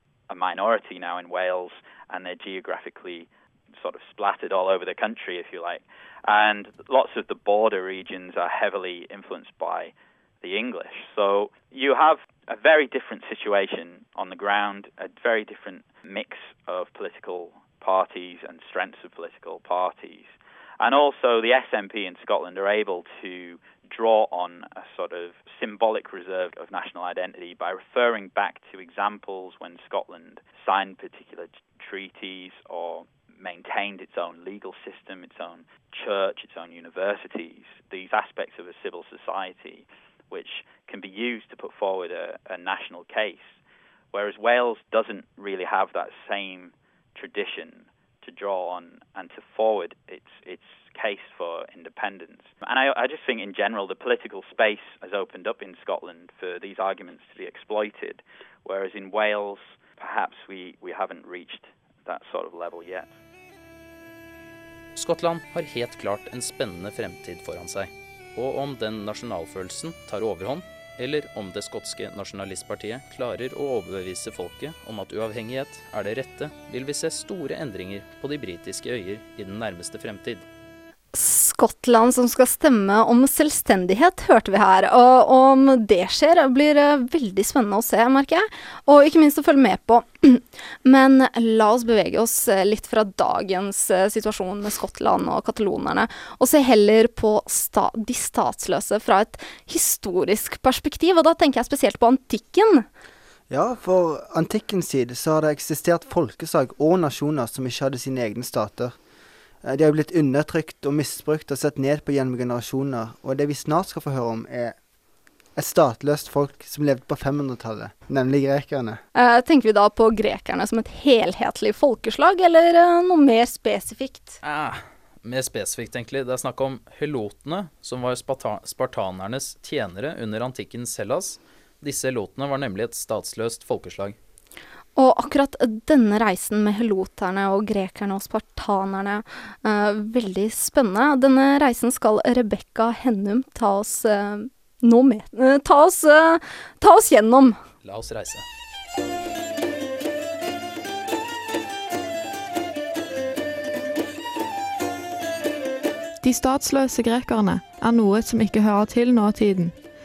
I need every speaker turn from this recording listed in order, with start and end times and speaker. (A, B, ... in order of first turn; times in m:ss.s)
0:00.3-0:43.6 A
0:44.1-1:03.1 A
1:05.0-1:20.4 B
1:21.1-1:42.8 C
1:43.5-1:48.9 D
1:49.6-1:54.7 D
1:55.6-1:59.0 D
1:59.1-2:04.4 C
2:04.4-2:14.2 B
2:15.0-2:27.6 C
2:27.8-2:28.4 B
2:36.2-2:39.7 E